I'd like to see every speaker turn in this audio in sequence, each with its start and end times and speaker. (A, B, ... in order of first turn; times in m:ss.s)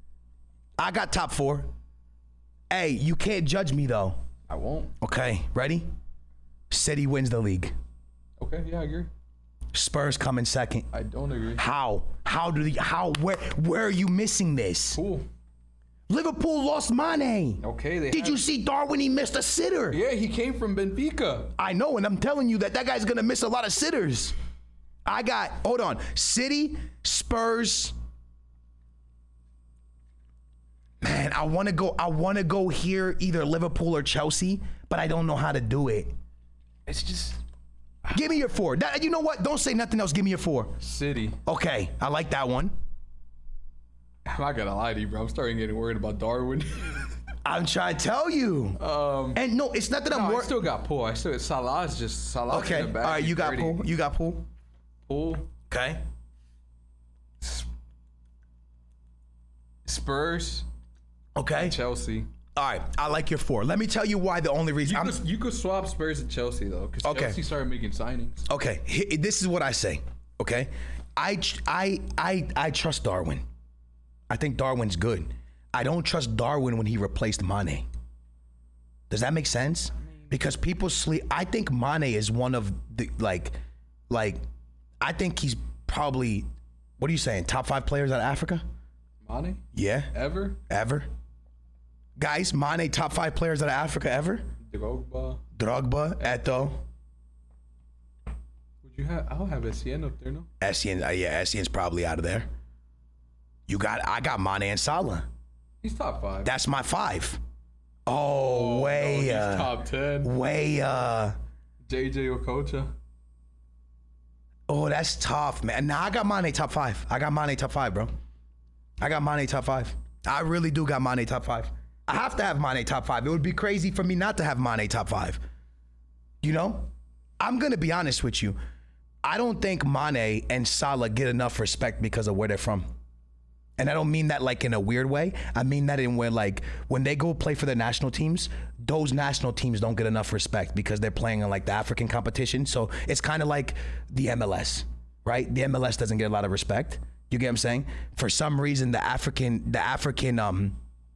0:00.8-0:01.7 A
0:02.7-0:04.2 A
0:04.5-0:04.9 B
0:05.0-0:05.9 A
0:06.7-0:07.7 A
0:08.4-0:09.1 B
0:09.7-0:10.9 A
0:10.9-0:11.6 B
0:11.6-0:15.0 A
0:14.9-0:15.2 B
0:16.1-0:20.0 A
0:17.6-0:18.4 B
0:19.9-0:21.5 B
0:21.6-0:24.4 A
0:25.0-0:28.0 A
0:31.0-0:36.1 A
0:36.9-0:37.4 B
0:38.1-0:40.8 A
0:40.8-0:41.4 B
0:41.5-0:42.8 A
0:44.2-0:47.1 B
0:47.4-0:48.8 A
0:48.8-0:49.4 B
0:49.3-0:50.6 A
0:50.1-0:53.9 B
0:52.5-0:54.5 A
0:55.0-0:55.5 B
0:55.7-0:56.0 A
0:57.4-0:57.7 B
0:59.8-1:00.7 B
1:01.4-1:01.8 A
1:01.6-1:02.3 B
1:02.6-1:05.2 A
1:04.8-1:08.5 B
1:07.0-1:07.4 A
1:08.5-1:13.4 A
1:14.3-1:17.9 A
1:19.1-1:23.6 A
1:20.0-1:20.3 B
1:24.1-1:24.4 A
1:25.0-1:26.5 A
1:27.0-1:28.6 A
1:29.2-1:30.6 B
1:29.7-1:31.1 A
1:32.2-1:34.5 A
1:34.6-1:35.4 B
1:35.6-1:36.8 A
1:38.8-1:40.5 B
1:40.6-1:42.5 A
1:43.7-1:45.3 A
1:45.8-1:46.5 B
1:46.4-1:47.4 A
1:48.1-1:51.4 A
1:48.4-1:50.3 B
1:51.9-1:52.9 B
1:54.7-1:58.1 A
1:59.0-2:05.4 A
2:06.4-2:06.9 A
2:07.4-2:08.6 A
2:09.2-2:12.9 A
2:13.8-2:30.8 A